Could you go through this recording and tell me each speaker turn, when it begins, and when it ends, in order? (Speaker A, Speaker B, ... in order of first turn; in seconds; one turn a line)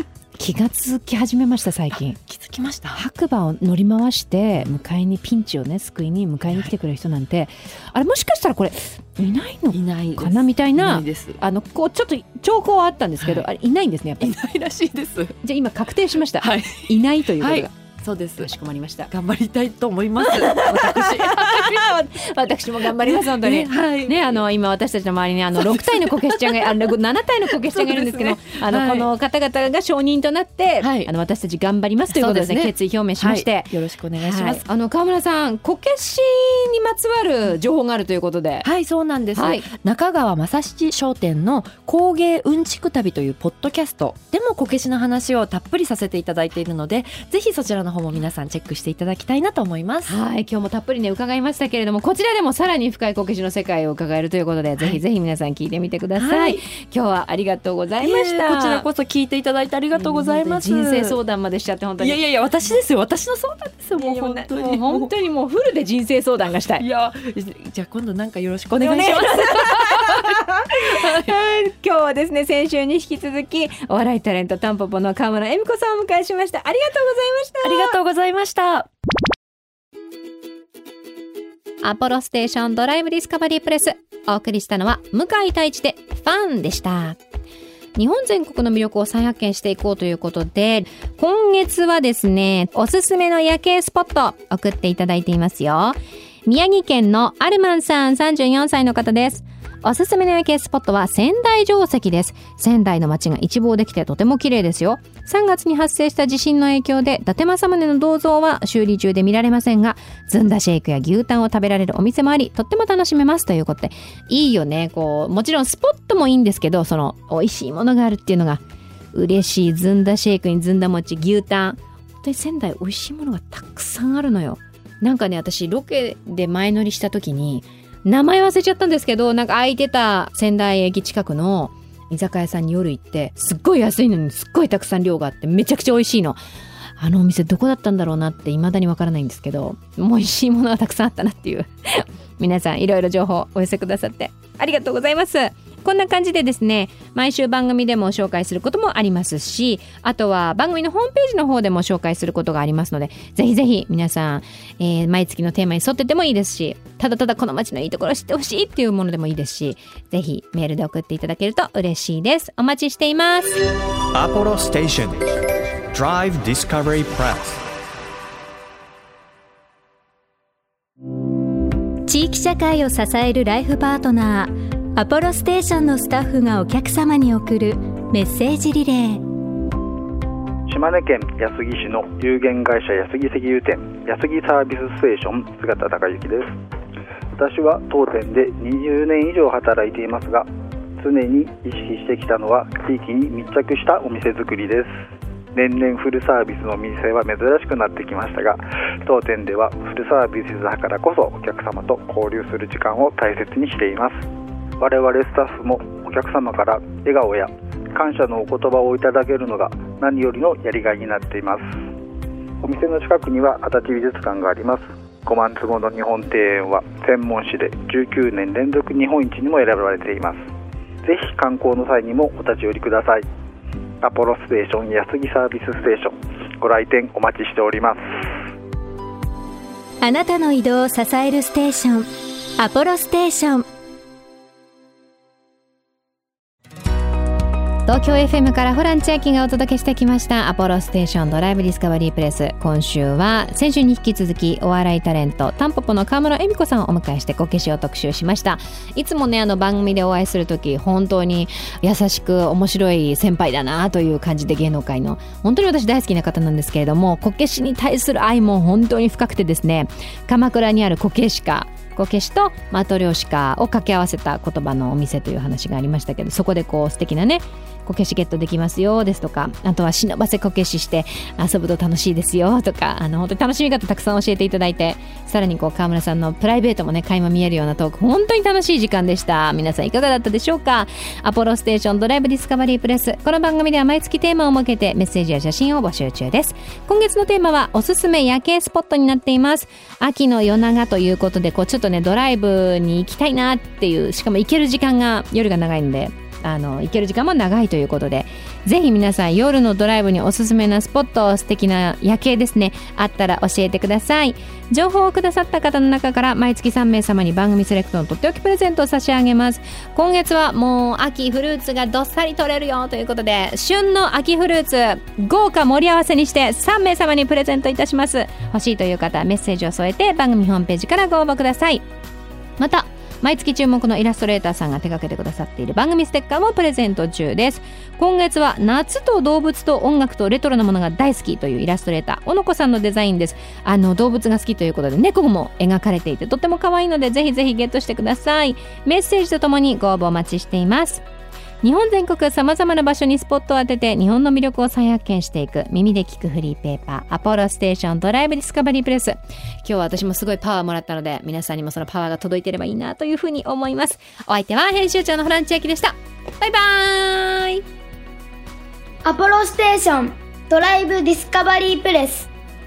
Speaker A: 0.4-2.2
Speaker B: 2.2-3.0
Speaker A: 2.9-14.3
Speaker B: 6.4-6.7
Speaker B: 9.7-11.4
Speaker B: 13.2-13.5
Speaker B: 14.2-15.4
Speaker A: 15.4-17.7
Speaker B: 16.4-18.5
Speaker A: 18.4-19.1
Speaker B: 19.1-21.9
Speaker A: 20.2-38.7
Speaker B: 22.8-24.4
Speaker B: 25.6-29.1
Speaker B: 30.8-31.1
Speaker B: 32.1-34.6
Speaker B: 38.6-50.1
Speaker A: 39.4-39.6
Speaker A: 50.1-58.9
Speaker B: 56.1-56.6
Speaker B: 58.0-61.2
Speaker A: 59.9-62.2
Speaker B: 62.0-65.1
Speaker A: 64.0-66.8
Speaker B: 66.8-71.3
Speaker A: 68.8-78.0
Speaker B: 77.6-78.9
Speaker A: 81.8-87.2
Speaker A: 88.0-118.6
Speaker A: 119.1-136.4
Speaker A: 137.0-163.6
Speaker C: 164.1-167.6
Speaker D: 172.1-179.3
Speaker E: 180.7-186.5
Speaker E: 187.4-190.5
Speaker E: 191.0-194.9
Speaker E: 195.6-204.2
Speaker E: 204.8-211.8
Speaker E: 212.6-220.4
Speaker E: 221.0-223.2
Speaker E: 224.0-228.3
Speaker D: 230.0-233.7
Speaker A: 237.9-321.9
Speaker A: 322.6-341.0
Speaker A: 341.6-357.6
Speaker F: 359.0-362.3